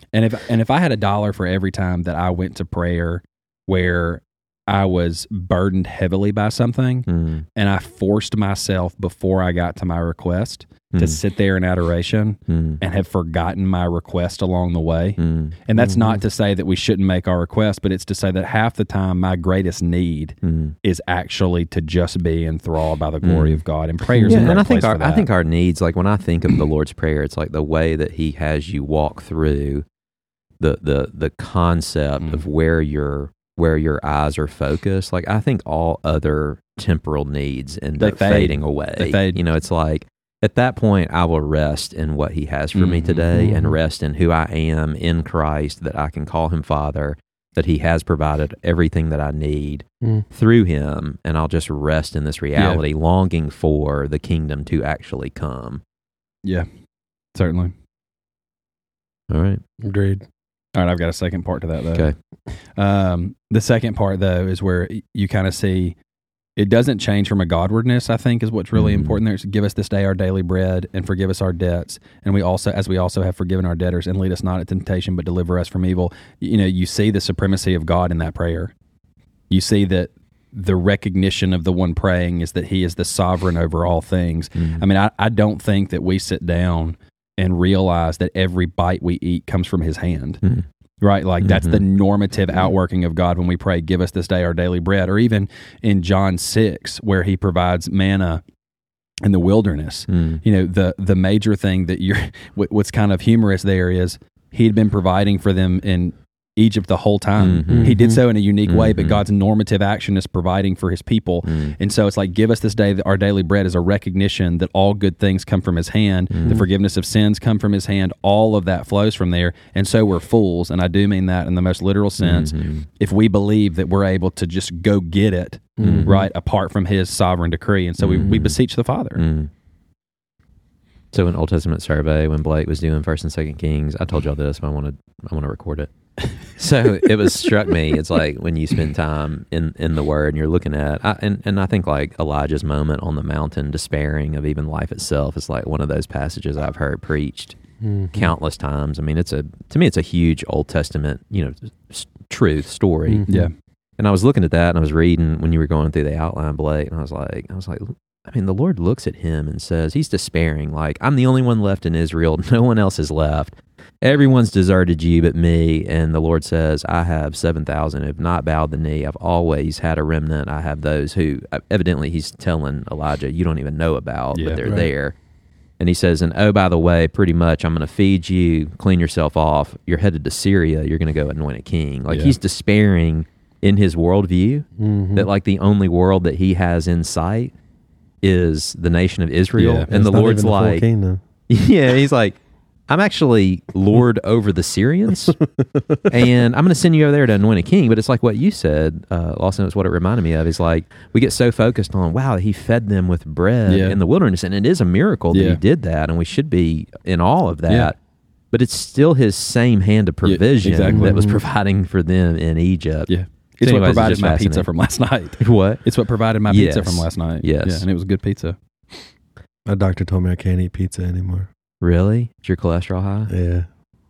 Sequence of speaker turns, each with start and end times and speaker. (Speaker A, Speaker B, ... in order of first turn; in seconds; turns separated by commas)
Speaker A: 0.1-25.3, Speaker B: 7.1-7.5, Speaker B: 10.9-11.2, Speaker B: 12.5-12.8, Speaker B: 15.2-15.6, Speaker C: 15.8-16.2, Speaker B: 20.4-20.8, Speaker B: 23.2-23.6, Speaker C: 24.1-24.6, Speaker B: 24.3-29.9, Speaker B: 30.6-55.8, Speaker A: 38.0-39.4, Speaker A: 42.8-43.3, Speaker C: 43.4-43.8, Speaker A: 52.6-52.8, Speaker A: 57.4-57.7, Speaker B: 59.3-59.6, Speaker C: 59.8-60.2, Speaker A: 60.8-62.1, Speaker A: 62.8-66.0, Speaker A: 66.6-78.7, Speaker B: 68.8-69.2, Speaker A: 79.5-90.4, Speaker B: 84.6-84.8, Speaker A: 91.0-98.4, Speaker B: 91.4-91.8, Speaker A: 99.2-129.2, Speaker B: 100.1-100.4, Speaker B: 107.4-108.0, Speaker C: 107.7-108.2, Speaker B: 108.7-109.2, Speaker B: 111.5-111.8, Speaker B: 116.3-116.6, Speaker B: 122.2-122.9, Speaker C: 125.8-126.3, Speaker B: 125.8-126.2, Speaker B: 128.0-128.6, Speaker B: 129.2-129.5, Speaker B: 131.1-135.9, Speaker B: 136.5-147.6, Speaker C: 147.8-148.3, Speaker B: 148.1-153.3, Speaker C: 153.1-153.5, Speaker B: 154.0-175.2, Speaker A: 174.3-174.6, Speaker C: 174.6-174.9, Speaker B: 175.8-187.5, Speaker A: 182.1-182.3, Speaker C: 184.8-185.3, Speaker B: 188.2-190.8, Speaker A: 189.6-189.9, Speaker C: 189.9-191.2, Speaker B: 191.5-195.4, Speaker C: 195.6-196.1, Speaker B: 196.1-207.9, Speaker A: 203.7-204.0, Speaker A: 205.3-205.6, Speaker B: 208.5-213.1, Speaker A: 210.2-211.2, Speaker C: 210.9-211.4, Speaker A: 213.1-218.6, Speaker B: 213.6-214.7, Speaker B: 215.4-215.8, Speaker B: 216.5-217.8, Speaker C: 219.7-221.5, Speaker B: 221.8-223.3, Speaker C: 223.3-223.7